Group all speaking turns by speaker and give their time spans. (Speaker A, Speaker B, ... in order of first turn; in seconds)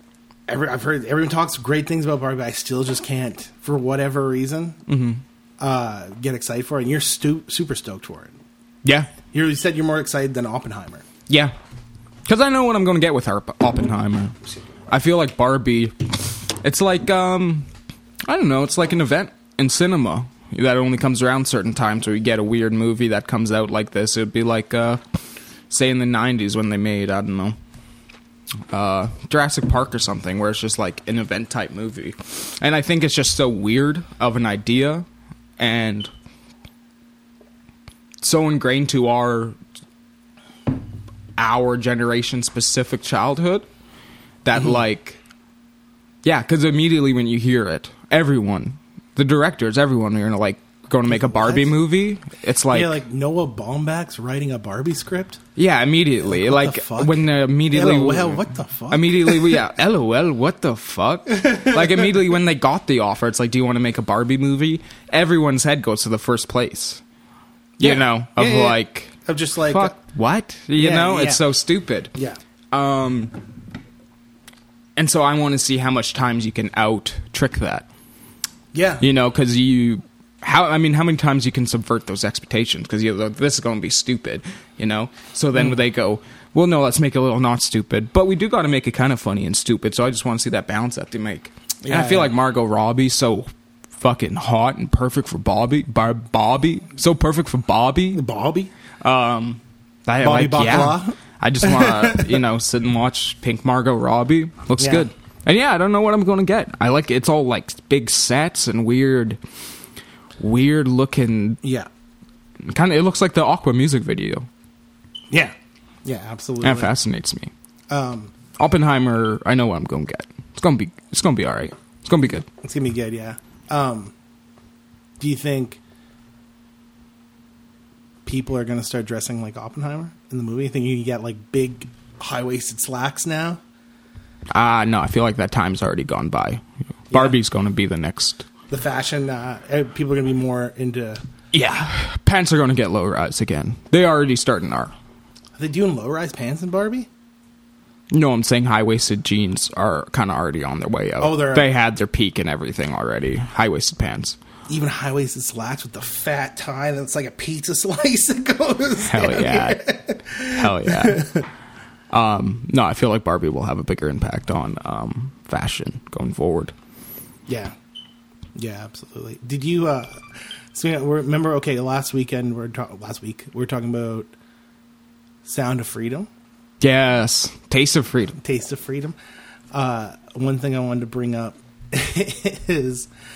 Speaker A: 0.5-4.8, 5.6-8.3, 9.3-11.0, 51.1-51.7, 52.7-55.4, 56.2-59.6, 61.4-62.1, 67.8-69.9, 70.8-71.4, 72.1-72.4, 78.7-79.0, 91.8-92.3, 98.1-98.7, 100.2-102.4, 104.8-105.1, 111.6-111.9, 115.3-116.9, 117.9-118.3, 122.6-124.1, 125.2-125.8, 128.2-133.6, 137.1-137.3, 138.7-141.2, 145.6-147.1, 151.2-151.7, 154.7-161.4, 167.5-167.7, 168.6-174.3, 175.4-176.3, 178.3-179.1, 179.7-183.1
Speaker B: 4.9-5.2, 8.8-9.1, 11.3-11.5, 12.2-14.3, 14.9-17.7, 18.2-25.0, 25.7-27.6, 28.7-35.0, 35.6-36.1, 38.2-39.5, 41.4-43.7, 44.4-45.2, 46.2-53.0, 55.5-67.0, 67.8-69.1, 69.7-72.1, 72.7-73.4, 75.0-77.8, 79.0-93.5, 94.0-98.2, 99.0-109.4, 110.4-111.6, 112.6-114.5, 116.6-117.5, 118.6-122.5, 134.5-138.5, 141.5-144.9, 148.1-154.4, 159.0-161.3, 162.1-166.7, 176.8-178.4